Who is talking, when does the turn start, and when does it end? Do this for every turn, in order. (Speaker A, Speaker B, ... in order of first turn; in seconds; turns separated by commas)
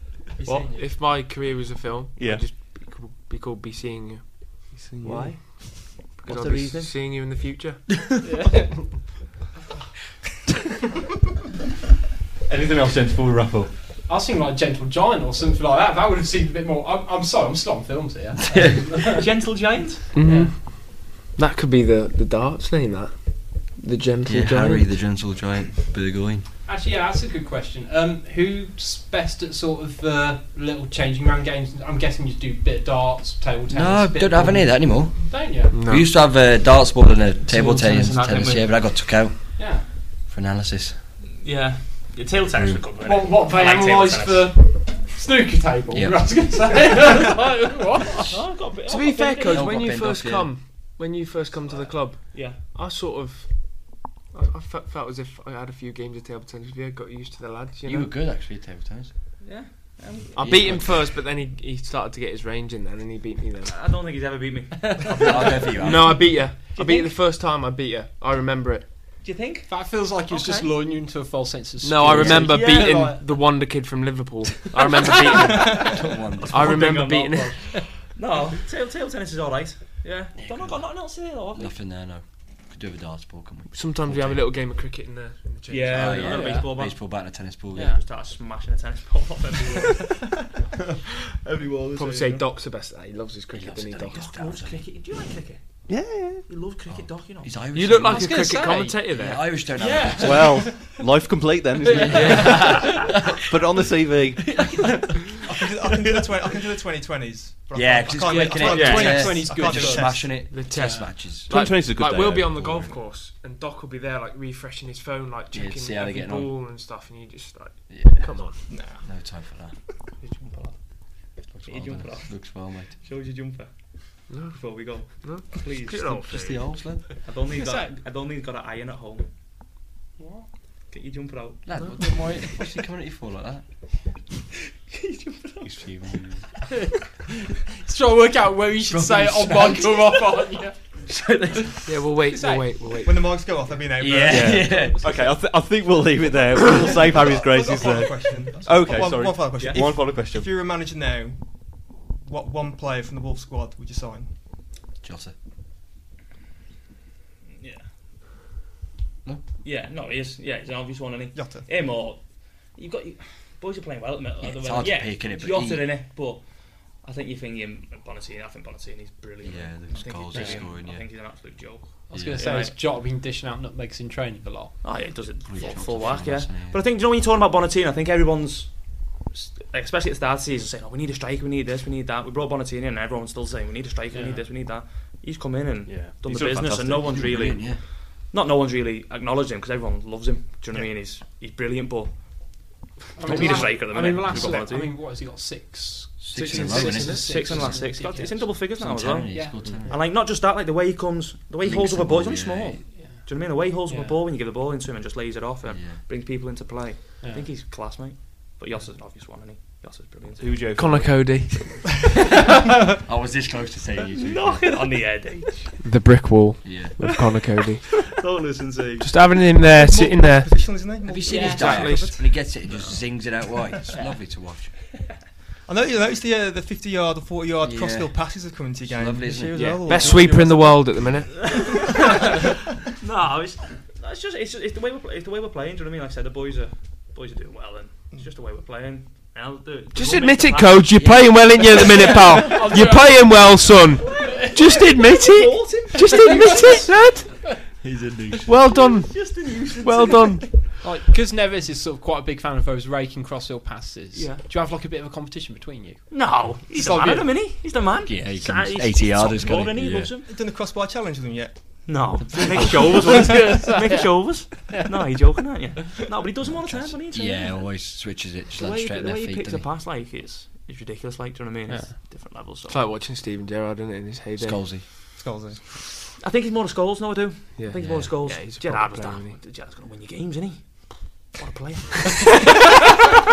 Speaker A: 0.4-0.9, Speaker B: 0.7-7.9, Speaker C: 2.2-2.5, Speaker C: 4.7-6.9, Speaker A: 8.2-8.9, Speaker C: 12.5-13.7, Speaker A: 14.1-19.3, Speaker D: 18.5-18.8, Speaker E: 19.1-20.0, Speaker B: 20.1-24.9, Speaker A: 20.2-20.6, Speaker D: 24.2-26.5, Speaker A: 26.6-35.8, Speaker D: 33.7-40.9, Speaker B: 35.7-36.1, Speaker E: 37.4-39.2, Speaker A: 39.6-39.9, Speaker E: 41.4-44.5, Speaker D: 42.6-42.8, Speaker A: 43.0-48.4, Speaker D: 45.9-46.5, Speaker E: 48.3-49.7, Speaker B: 48.8-58.1, Speaker D: 49.5-50.5, Speaker E: 51.7-52.6, Speaker D: 57.9-59.1, Speaker E: 59.4-61.0, Speaker D: 60.4-61.1, Speaker B: 60.4-63.8, Speaker E: 63.6-67.1, Speaker D: 65.2-66.3, Speaker B: 65.6-69.0, Speaker E: 69.2-70.7, Speaker A: 69.7-73.2, Speaker B: 71.8-77.7, Speaker D: 72.0-72.5, Speaker E: 72.2-73.2, Speaker A: 75.1-75.5, Speaker D: 75.8-76.9, Speaker E: 76.4-81.8, Speaker D: 80.4-80.9, Speaker D: 81.5-84.5, Speaker B: 83.7-86.5, Speaker E: 85.7-87.0, Speaker D: 85.9-88.0, Speaker A: 86.3-86.7, Speaker A: 87.7-88.0, Speaker E: 87.8-90.2, Speaker C: 91.5-92.4, Speaker B: 91.9-94.4, Speaker D: 93.5-94.8, Speaker E: 94.1-95.6, Speaker C: 95.9-96.5, Speaker E: 96.5-97.6, Speaker D: 96.9-98.5, Speaker B: 97.7-99.6, Speaker A: 98.1-99.1, Speaker D: 99.1-100.7, Speaker A: 99.8-100.8, Speaker C: 100.2-102.6, Speaker A: 101.8-103.2, Speaker D: 101.8-103.4, Speaker B: 102.0-103.0, Speaker C: 103.5-104.8, Speaker A: 104.6-105.0, Speaker F: 105.5-110.5, Speaker D: 107.7-111.5, Speaker A: 108.2-111.1, Speaker E: 108.6-109.3, Speaker B: 110.5-118.6, Speaker C: 111.5-112.9, Speaker D: 115.5-116.5, Speaker D: 117.9-119.7, Speaker F: 118.7-119.0, Speaker E: 120.2-126.6, Speaker D: 121.5-123.0, Speaker B: 124.3-126.7, Speaker D: 126.3-127.0, Speaker E: 127.2-129.3, Speaker A: 127.5-127.9, Speaker A: 130.2-130.5, Speaker E: 130.9-131.7, Speaker D: 131.7-133.6, Speaker E: 134.9-135.8, Speaker D: 135.6-136.4, Speaker A: 137.8-140.8, Speaker D: 138.9-140.1, Speaker D: 141.1-141.9, Speaker B: 141.8-143.4, Speaker A: 142.3-142.8, Speaker F: 143.0-144.8, Speaker D: 143.9-145.0, Speaker C: 144.3-150.5, Speaker F: 147.2-154.3, Speaker D: 155.0-155.3, Speaker E: 157.6-157.8, Speaker E: 159.6-172.8, Speaker F: 161.3-161.7, Speaker D: 164.4-165.9, Speaker D: 169.4-171.1, Speaker A: 170.3-170.7, Speaker A: 172.1-174.9, Speaker D: 172.1-172.5, Speaker E: 174.8-195.0, Speaker D: 175.4-176.8, Speaker A: 175.6-176.2, Speaker A: 184.1-184.5, Speaker C: 185.9-187.2, Speaker D: 187.0-187.8, Speaker A: 193.2-198.5, Speaker D: 193.2-193.7, Speaker D: 196.2-197.8, Speaker B: 196.3-197.4, Speaker E: 197.0-210.7, Speaker D: 198.5-200.0, Speaker A: 199.3-200.0, Speaker D: 201.6-202.8, Speaker A: 202.9-203.3, Speaker A: 203.8-204.2, Speaker D: 205.7-206.0, Speaker A: 207.2-207.5, Speaker C: 210.4-211.4, Speaker B: 210.7-211.8, Speaker D: 213.0-214.8, Speaker E: 214.2-215.7, Speaker B: 215.8-217.8, Speaker D: 216.6-217.0, Speaker C: 218.1-219.1, Speaker B: 219.0-220.5, Speaker F: 219.6-222.4, Speaker D: 221.0-224.7, Speaker A: 221.3-221.8, Speaker B: 221.3-222.2, Speaker E: 222.7-223.0, Speaker F: 225.7-231.5, Speaker D: 227.6-228.2, Speaker D: 228.8-230.2, Speaker B: 229.5-231.5, Speaker E: 231.4-242.9, Speaker B: 239.9-247.3, Speaker D: 241.0-242.1, Speaker A: 242.5-243.5, Speaker E: 244.0-246.9, Speaker A: 244.1-244.8, Speaker D: 247.8-248.5, Speaker B: 248.4-250.5, Speaker E: 248.7-250.4, Speaker A: 250.8-257.4, Speaker E: 254.1-254.4, Speaker E: 256.1-260.3, Speaker D: 258.0-260.1, Speaker F: 260.2-262.0, Speaker E: 261.9-267.7, Speaker A: 263.1-264.9, Speaker D: 266.4-269.7, Speaker E: 268.5-272.9, Speaker A: 271.7-272.0, Speaker B: 272.7-274.7, Speaker D: 274.4-274.9, Speaker F: 275.1-275.6, Speaker E: 276.2-282.6, Speaker B: 277.6-279.4, Speaker D: 277.7-278.1